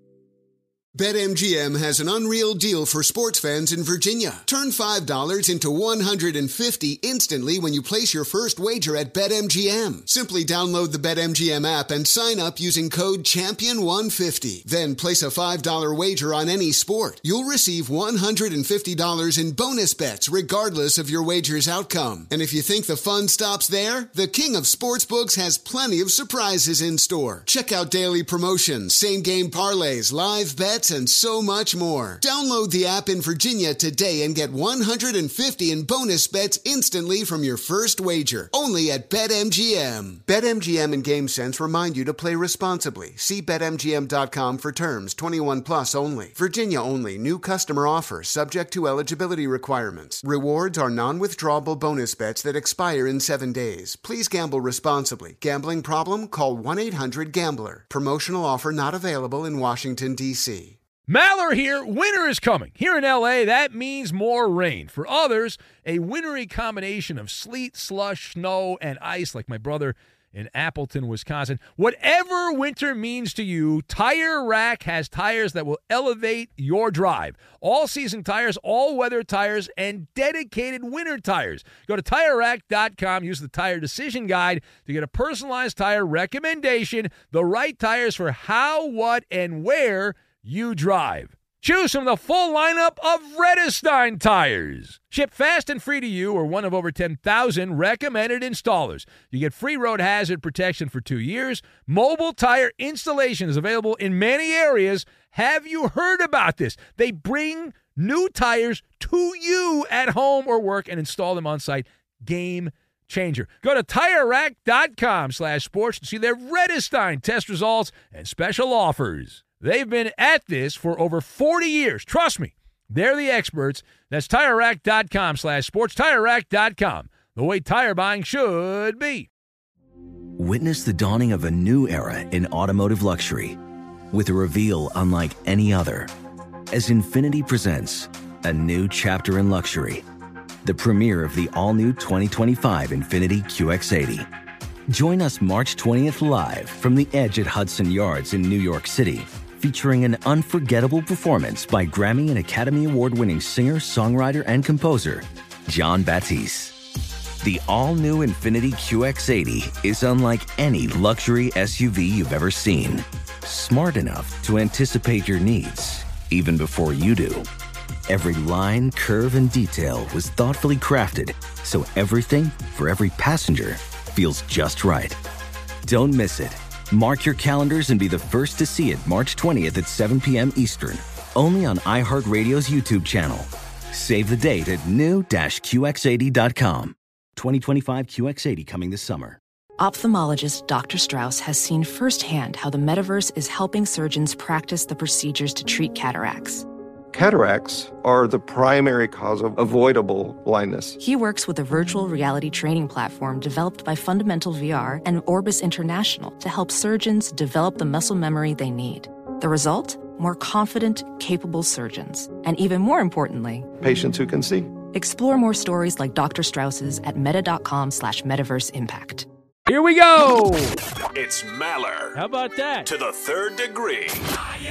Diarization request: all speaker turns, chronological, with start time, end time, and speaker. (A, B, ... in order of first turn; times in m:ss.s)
0:00.9-1:00.8 A
1:01.1-2:09.3 B
2:10.4-2:13.6 C
2:14.1-2:16.1 C
2:16.7-2:20.0 C
2:20.6-2:24.3 C
2:24.9-2:36.8 C
2:37.4-2:47.5 C
2:48.1-2:55.2 C
2:55.8-3:09.4 C
3:09.8-3:16.7 D
3:17.1-3:21.0 E
3:21.0-3:33.7 D
3:33.8-3:34.7 E
3:34.9-3:39.3 D
3:39.7-3:40.8 B
3:41.2-3:42.2 F
3:42.1-3:42.9 B
3:42.9-3:44.2 F